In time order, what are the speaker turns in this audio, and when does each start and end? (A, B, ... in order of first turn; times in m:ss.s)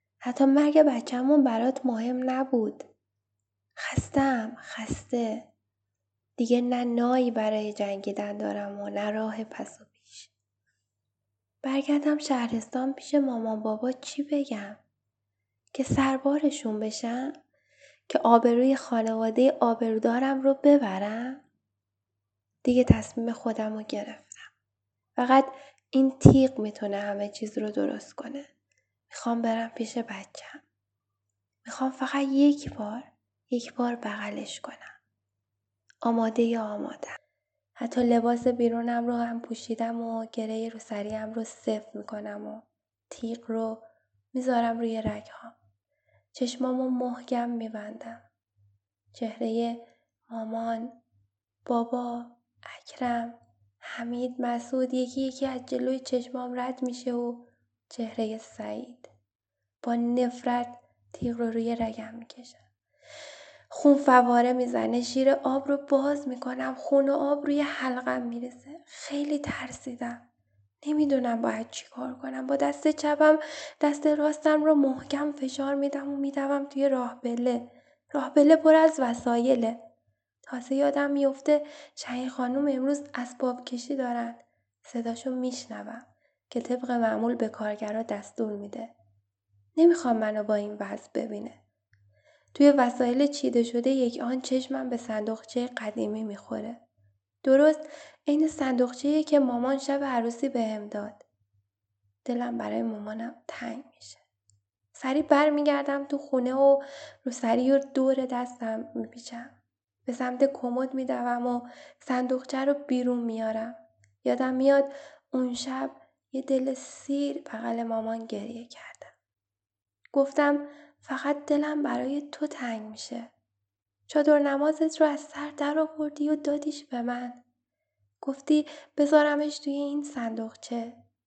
0:00.2-0:02.9 A
0:03.8-0:05.5 A
0:06.4-0:10.3 A
0:11.6-0:14.8 A
0:15.7-0:17.4 A
0:18.1-0:21.4 A
0:22.6-0:24.5 A
0:25.2-0:28.5 A
0:29.1-0:30.6 A
0:31.6-0:35.0 A
0:36.0-0:37.2 A
0:37.8-0:45.5 A
0:46.3-0:48.2 A
0:49.1-0:51.0 A
0:51.6-0:59.1 A
0:59.8-1:02.6 A
1:03.7-1:10.2 A
1:10.8-1:19.8 A
1:20.4-1:28.9 A
1:29.8-1:31.6 A
1:32.5-1:36.8 A
1:37.4-1:41.2 A
1:42.2-1:44.2 A
1:44.9-1:59.1 A
2:00.1-2:03.3 A
2:04.1-2:07.4 A
2:08.2-2:11.0 A